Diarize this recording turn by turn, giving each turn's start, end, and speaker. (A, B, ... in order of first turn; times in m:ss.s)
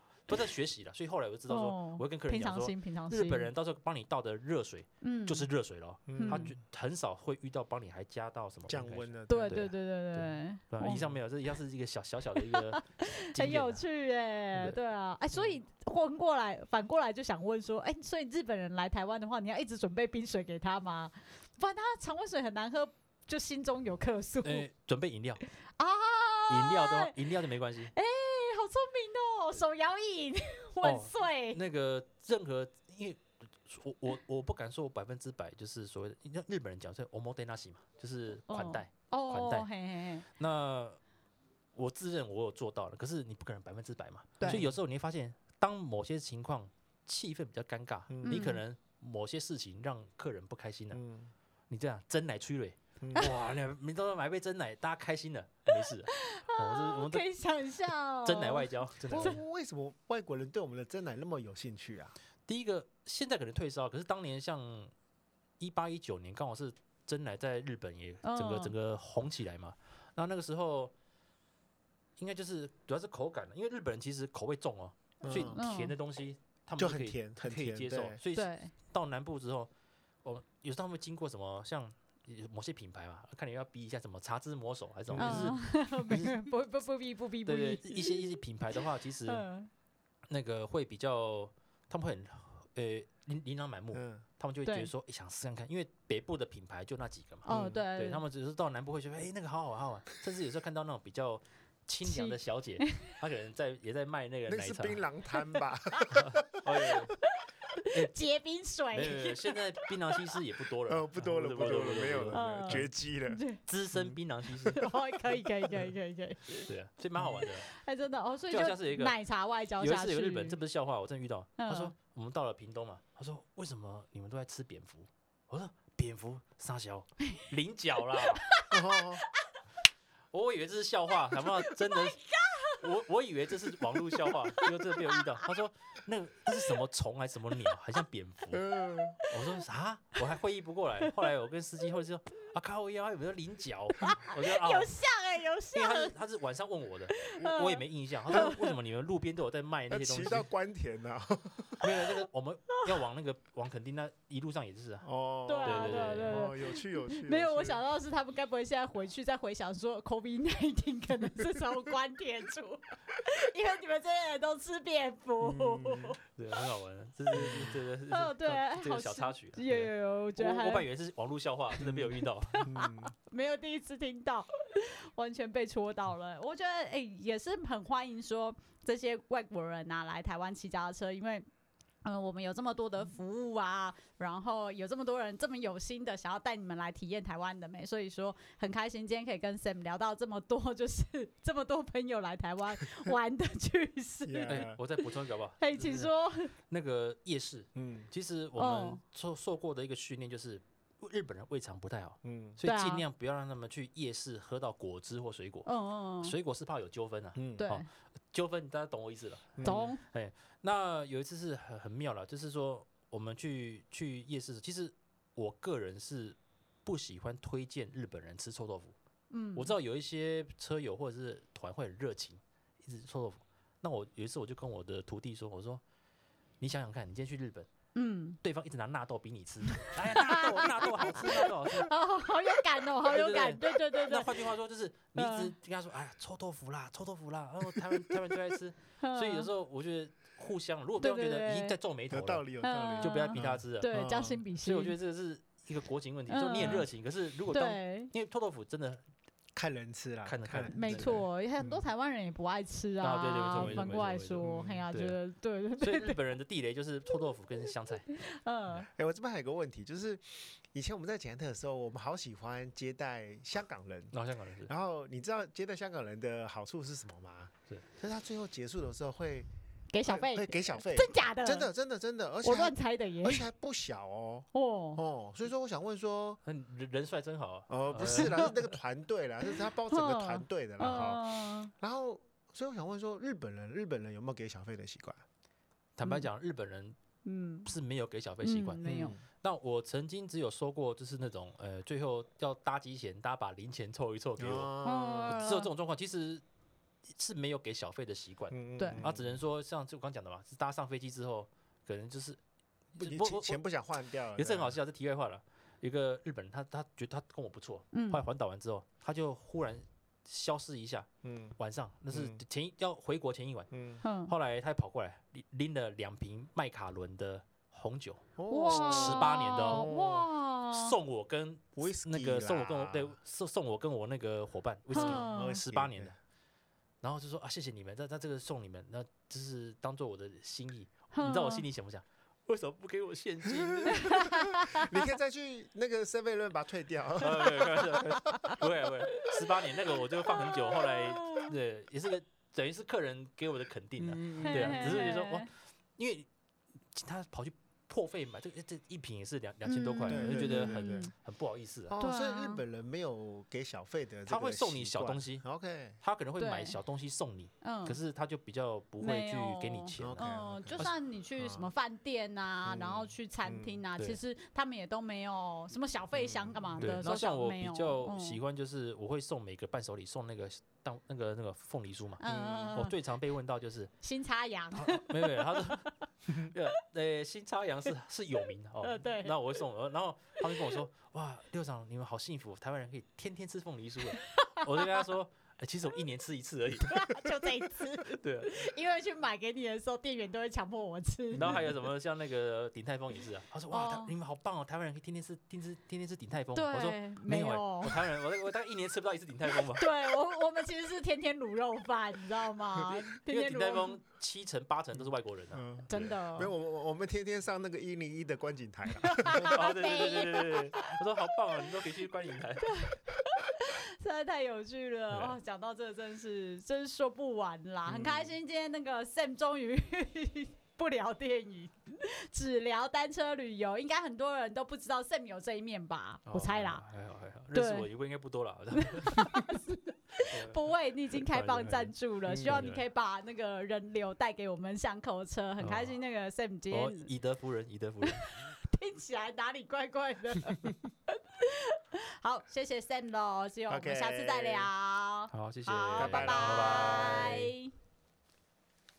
0:00.3-0:13.8 A
0:01.5-0:03.5 B
0:05.0-0:05.5 B
0:06.1-0:06.6 C
0:06.2-0:06.5 B
0:08.7-0:09.6 C
0:09.3-0:11.1 B
0:12.4-0:24.7 B
0:24.4-0:25.4 A
0:25.8-0:27.2 B
0:26.5-0:27.9 A
0:27.9-0:31.6 B
0:30.8-0:39.7 A
0:38.5-0:40.3 B
0:40.3-0:41.0 A
0:41.8-0:51.0 A
0:44.5-0:44.8 C
0:48.1-0:48.5 C
0:48.2-0:48.6 B
0:50.9-0:51.3 C
0:51.7-0:57.2 A
0:53.0-0:53.3 C
0:55.7-0:59.4 B
0:58.2-0:59.4 A
0:59.1-1:02.2 C
1:02.5-1:04.9 A
1:05.6-1:10.9 A
1:08.2-1:08.7 B
1:12.2-1:19.7 A
1:15.2-1:15.6 C
1:15.3-1:16.0 B
1:16.8-1:18.2 C
1:18.3-1:18.7 B
1:20.2-1:26.4 A
1:25.1-1:25.6 C
1:25.2-1:28.2 B
1:27.5-1:29.4 A
1:29.3-1:29.7 B
1:30.3-1:45.0 A
1:33.9-1:34.2 C
1:34.6-1:34.9 B
1:37.5-1:37.9 C
1:37.5-1:38.2 B
1:42.0-1:43.0 B
1:44.5-1:47.0 C
1:45.3-1:46.1 B
1:46.1-1:47.2 A
1:47.4-1:49.6 B
1:48.9-1:52.9 A
1:50.9-1:53.4 C
1:52.3-1:53.6 B
1:53.7-1:54.9 A
1:53.9-1:54.9 C
1:54.7-1:56.7 B
1:56.6-1:57.7 A
1:57.4-2:00.6 B
1:58.5-1:59.2 A
1:59.8-2:08.4 A
2:01.6-2:01.9 B
2:08.2-2:09.4 B
2:08.7-2:09.2 C
2:10.3-2:18.7 A
2:11.4-2:12.8 B
2:14.0-2:15.2 B
2:18.5-2:19.2 C
2:19.2-2:19.6 B
2:19.3-2:24.9 A
2:24.0-2:26.1 B
2:25.7-2:30.5 A
2:27.2-2:28.7 B
2:29.9-2:31.9 C
2:31.8-2:35.1 A
2:35.0-2:37.8 C
2:35.5-2:46.2 B
2:35.6-2:36.5 A
2:45.4-2:46.2 C
2:46.4-2:52.7 A
2:47.4-2:47.8 C
2:48.1-2:50.9 B
2:51.8-2:52.1 C
2:52.5-3:01.4 B
2:52.6-2:53.1 C
3:02.0-3:14.7 B
3:14.2-3:14.8 C
3:14.5-3:25.7 A
3:15.6-3:16.5 B
3:17.8-3:18.1 C
3:18.6-3:19.0 B
3:22.2-3:22.6 C
3:22.6-3:23.0 B
3:25.7-3:26.4 B
3:26.2-3:39.0 A
3:27.4-3:27.7 C
3:27.6-3:27.9 B
3:29.6-3:29.9 C
3:29.6-3:30.0 B
3:39.3-3:39.7 B
3:39.6-3:45.8 A
3:46.6-3:47.7 A
3:48.0-3:48.4 B
3:48.4-3:51.9 A
3:49.8-3:54.3 B
3:53.0-4:04.0 A
3:55.2-3:55.5 B
3:57.8-3:58.2 C
3:59.0-3:59.5 B
4:01.0-4:01.8 B
4:02.1-4:04.4 C
4:02.6-4:05.0 B
4:04.6-4:09.0 A
4:06.3-4:06.9 B
4:07.5-4:08.1 B
4:09.6-4:11.9 C
4:10.2-4:11.2 A
4:10.7-4:16.2 B
4:13.0-4:15.2 A
4:13.5-4:14.8 C
4:15.8-4:18.1 A
4:18.2-4:18.9 B
4:18.7-4:24.1 C
4:24.1-4:24.7 A
4:24.6-4:29.5 C
4:29.9-4:31.7 B
4:30.0-4:36.4 C
4:32.4-4:33.5 B
4:34.5-4:35.0 B
4:36.4-4:38.8 A
4:37.7-4:45.2 C
4:39.9-4:41.7 B
4:46.0-4:47.0 A
4:47.2-4:47.7 B
4:47.6-4:54.7 A
4:48.4-4:49.2 B
4:48.8-4:49.2 C
4:54.4-4:55.4 C
4:54.8-4:55.7 B
4:55.3-4:56.4 A
4:57.1-5:02.4 A
4:58.5-4:59.4 C
4:58.8-4:59.0 B
5:03.0-5:03.6 A
5:03.0-5:04.8 C
5:04.4-5:11.1 A
5:07.9-5:08.2 B
5:11.2-5:11.6 C
5:11.6-5:13.7 A
5:12.1-5:12.4 C
5:13.7-5:14.0 C
5:14.0-5:14.3 B
5:14.3-5:19.9 A
5:18.4-5:20.3 C
5:18.5-5:21.0 B
5:20.7-5:26.2 A
5:21.8-5:23.2 C
5:24.9-5:25.6 B
5:24.9-5:26.1 C
5:27.0-5:34.1 A
5:31.1-5:31.6 B
5:33.5-5:38.2 C
5:33.9-5:35.1 B
5:37.2-5:46.3 A
5:38.3-5:38.6 B
5:40.3-5:41.5 B
5:44.0-5:45.1 C
5:44.4-5:45.5 B
5:46.9-5:51.9 A
5:49.7-5:51.1 B
5:50.1-5:51.1 C
5:51.9-5:56.0 C
5:52.0-5:52.6 B
5:54.3-5:55.4 A
5:56.0-6:00.9 A
5:56.4-5:56.8 B
5:57.6-5:58.0 B
5:59.0-6:08.4 B
6:00.0-6:01.7 C
6:02.7-6:03.8 C
6:06.1-6:07.0 C
6:06.8-6:12.2 A
6:12.2-6:12.9 B
6:12.3-6:12.8 C
6:12.7-6:13.9 A
6:14.0-6:15.9 B
6:14.7-6:27.5 A
6:18.8-6:19.4 B
6:24.3-6:25.1 B
6:26.9-6:31.6 B
6:28.0-6:28.7 A
6:31.3-6:39.9 A
6:33.7-6:34.1 B
6:36.6-6:38.1 B
6:39.8-6:44.0 B
6:43.3-6:46.1 A
6:45.5-6:49.6 C
6:45.9-6:46.5 B
6:49.0-6:51.0 B
6:49.4-6:52.7 A
6:52.6-7:06.8 B
6:55.1-6:55.4 A
6:57.9-6:58.3 C
7:06.3-7:09.4 A
7:07.5-7:07.9 B
7:08.8-7:17.1 B
7:10.3-7:12.8 A
7:12.3-7:12.6 C
7:15.6-7:16.0 A
7:16.7-7:18.3 A
7:18.1-7:20.7 B
7:21.4-7:27.7 B
7:23.7-7:24.7 C
7:25.3-7:27.4 A
7:26.0-7:27.5 C